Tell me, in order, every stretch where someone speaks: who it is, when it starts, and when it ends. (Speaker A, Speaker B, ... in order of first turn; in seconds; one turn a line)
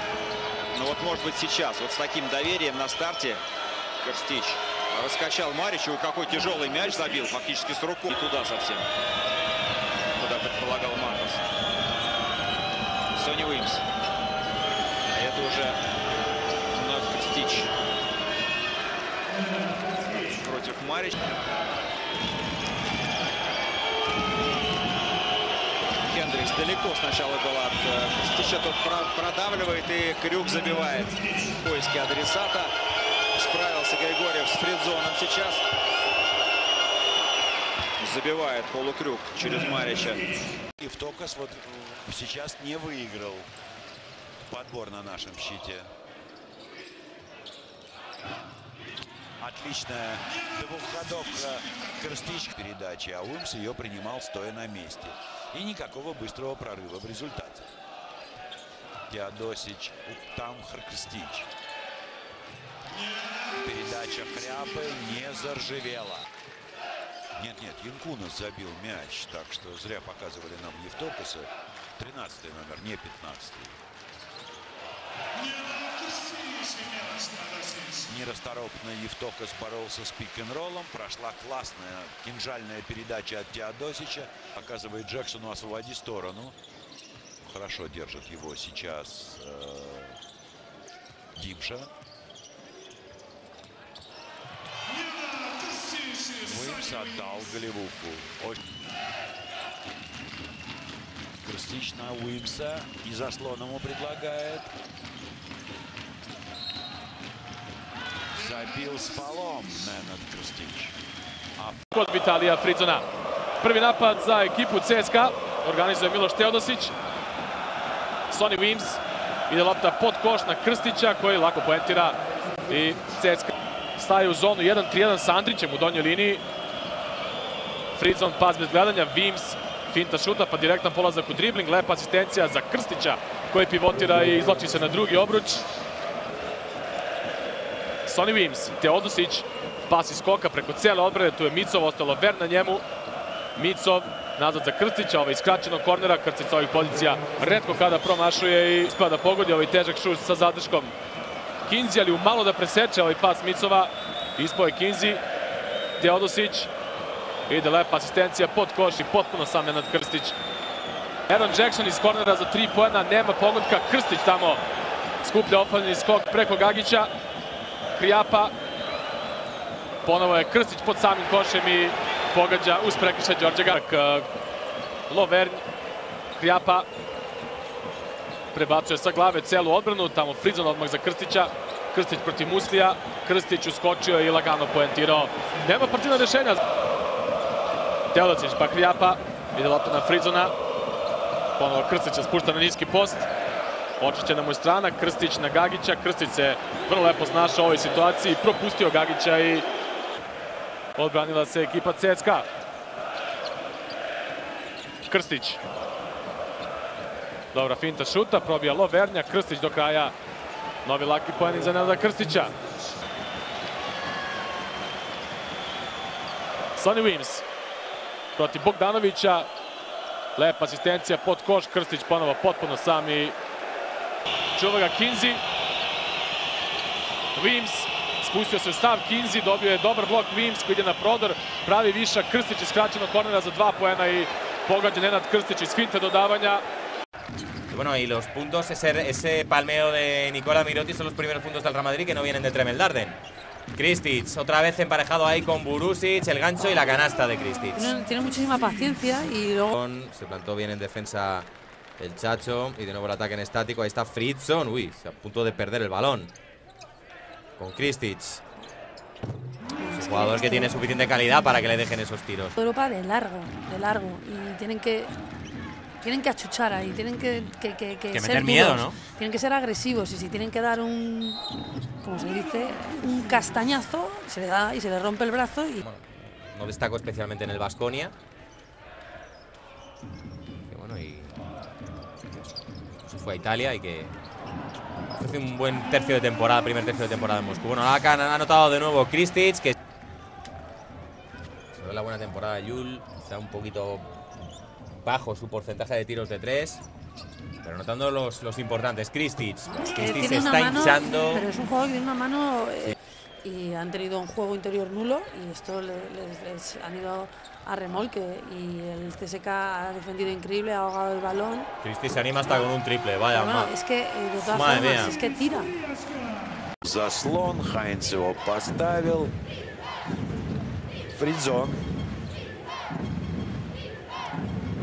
Speaker A: 0.8-3.4
Speaker A: 4.0-8.8
Speaker A: 10.2-11.4
Speaker A: 13.2-13.8
Speaker A: 15.2-15.8
Speaker A: 16.8-17.7
Speaker A: 20.4-21.1
Speaker A: 26.1-32.7
Speaker A: 33.4-35.6
Speaker A: 38.0-40.2
Speaker B: 40.8-43.5
Speaker B: 44.5-45.9
Speaker B: 49.4-57.7
Speaker B: 59.1-61.5
Speaker B: 63.6-66.3
Speaker B: 67.4-73.8
Speaker B: 78.0-86.6
Speaker B: 87.4-90.2
Speaker B: 91.4-91.9
Speaker B: 96.4-98.6
Speaker B: 101.4-104.7
Speaker B: 108.3-111.0
Speaker B: 111.6-111.9
Speaker C: 111.9-113.0
Speaker C: 113.6-116.9
Speaker C: 118.3-126.4
Speaker C: 128.0-135.6
Speaker C: 138.1-142.8
Speaker C: 143.6-150.9
Speaker C: 151.7-155.2
Speaker C: 156.0-156.7
Speaker C: 157.5-160.3
Speaker C: 161.3-164.6
Speaker C: 165.2-167.1
Speaker C: 168.0-168.5
Speaker C: 170.0-174.2
Speaker C: 175.1-175.6
Speaker C: 176.4-176.9
Speaker C: 178.5-186.6
Speaker C: 188.1-190.5
Speaker C: 191.6-193.3
Speaker C: 194.0-199.7
Speaker C: 201.0-202.4
Speaker C: 205.1-205.6
Speaker C: 207.5-210.1
Speaker C: 210.8-212.5
Speaker C: 216.8-217.4
Speaker C: 218.3-219.5
Speaker C: 220.3-223.3
Speaker C: 224.6-225.4
Speaker C: 227.3-236.6
Speaker D: 237.7-243.2
Speaker D: 243.7-247.8
Speaker E: 247.8-249.7
Speaker D: 249.7-251.5
Speaker D: 252.0-256.3
Speaker D: 257.6-258.4
Speaker E: 259.8-260.8
Speaker D: 260.0-262.5
Speaker E: 262.5-265.1
Speaker E: 266.0-271.4
Speaker D: 268.1-268.9
Speaker E: 272.0-275.8
Speaker D: 275.8-278.1
Speaker D: 280.7-281.3
Speaker D: 283.1-284.1
Speaker D: 285.2-289.7
Speaker D: 291.7-294.1
Speaker D: 295.0-296.8
Speaker D: 297.6-301.4
Speaker E: 299.7-311.7
Speaker D: 311.8-313.7
Speaker E: 313.3-315.7
Speaker D: 314.4-315.1
Speaker B: 316.8-319.3
Speaker B: 321.1-321.8